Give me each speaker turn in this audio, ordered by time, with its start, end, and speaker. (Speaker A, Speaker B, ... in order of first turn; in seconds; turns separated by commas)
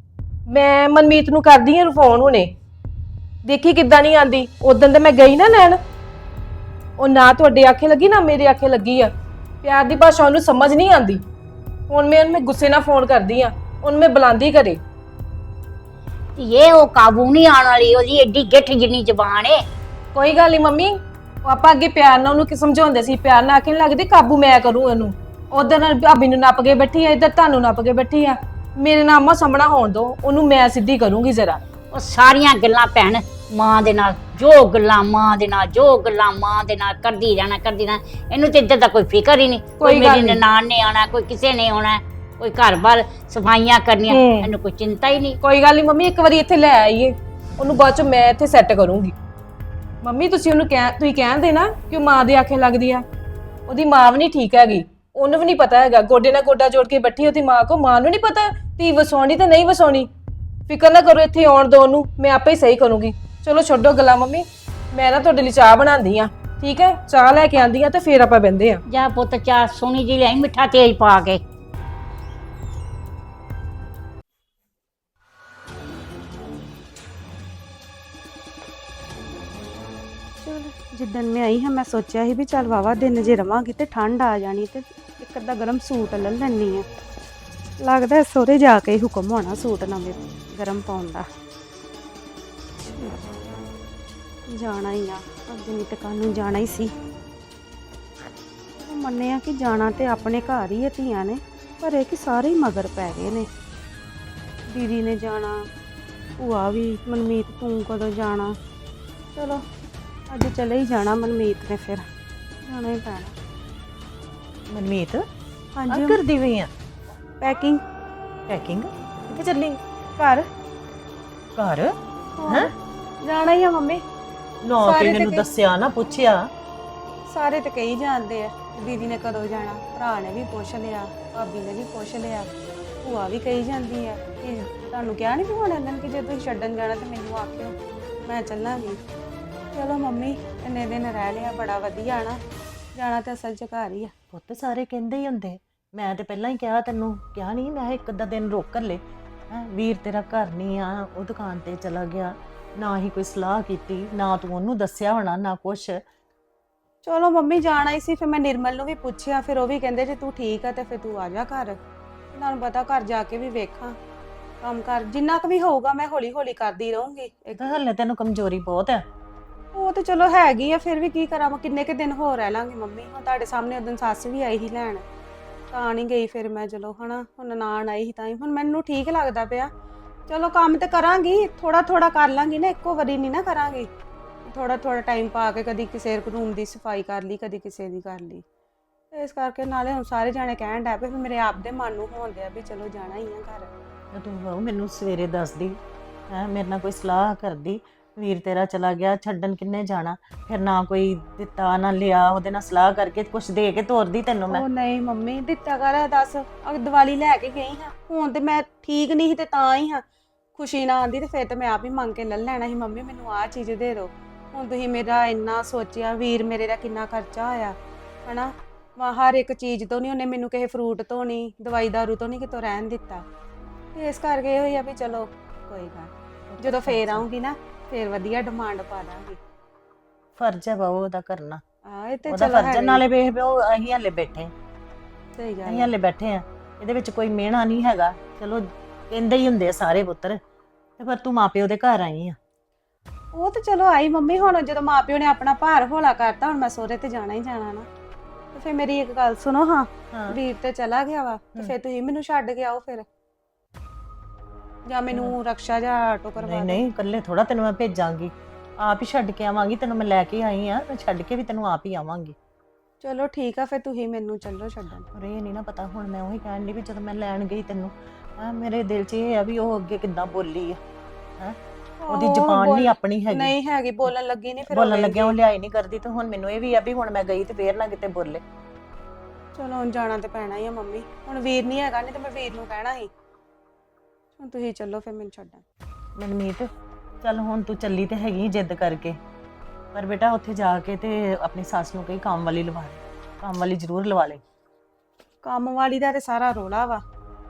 Speaker A: 0.5-2.5, Speaker A: 3.4-5.8, Speaker A: 7.0-9.1, Speaker A: 9.6-11.2, Speaker A: 11.9-14.8, Speaker B: 16.4-19.6, Speaker A: 20.1-20.9, Speaker A: 21.4-31.6, Speaker B: 31.9-45.4, Speaker A: 39.8-40.4, Speaker A: 44.1-44.5, Speaker A: 45.4-49.1, Speaker A: 50.0-53.0, Speaker A: 53.7-60.1, Speaker A: 60.7-68.8, Speaker B: 68.9-71.4, Speaker C: 80.4-86.8, Speaker C: 87.8-91.3, Speaker C: 92.8-93.2, Speaker C: 94.5-96.9, Speaker C: 98.8-103.5, Speaker C: 104.7-105.6, Speaker C: 106.4-108.5, Speaker C: 109.3-109.6, Speaker C: 110.3-112.0, Speaker C: 112.6-113.3, Speaker D: 114.7-115.2, Speaker C: 115.7-116.2, Speaker D: 116.3-116.7, Speaker C: 117.4-117.8, Speaker D: 118.5-119.8, Speaker C: 120.2-120.5, Speaker D: 121.6-121.9, Speaker C: 122.4-122.7, Speaker C: 123.2-124.0, Speaker D: 124.7-126.3, Speaker C: 124.8-125.4, Speaker C: 127.3-132.5, Speaker C: 133.0-139.0, Speaker C: 139.7-142.4, Speaker C: 142.9-144.1, Speaker D: 144.3-149.0, Speaker D: 149.5-155.9, Speaker C: 157.0-161.8, Speaker C: 162.3-163.9, Speaker C: 164.6-167.8, Speaker D: 167.6-169.0, Speaker C: 169.7-175.0, Speaker C: 175.7-179.7, Speaker C: 180.3-183.9, Speaker C: 184.4-188.4, Speaker C: 189.1-193.7, Speaker D: 194.2-195.7, Speaker D: 196.3-204.6, Speaker C: 204.5-210.0, Speaker C: 210.5-217.7, Speaker C: 218.2-223.2, Speaker C: 223.9-229.4, Speaker D: 230.4-231.6, Speaker C: 231.8-233.0, Speaker D: 232.3-234.5, Speaker C: 235.3-235.9, Speaker D: 235.7-240.4, Speaker D: 241.0-242.3, Speaker C: 243.3-247.9, Speaker C: 248.5-253.1, Speaker C: 254.9-256.8, Speaker D: 256.4-258.3, Speaker D: 258.8-262.3, Speaker C: 263.0-265.1, Speaker D: 265.2-270.8, Speaker C: 272.0-275.4, Speaker D: 272.1-273.5, Speaker D: 274.7-278.4, Speaker C: 279.5-283.1, Speaker C: 284.4-285.6, Speaker D: 286.2-286.7, Speaker D: 287.2-289.1, Speaker D: 289.9-294.4, Speaker C: 295.4-297.0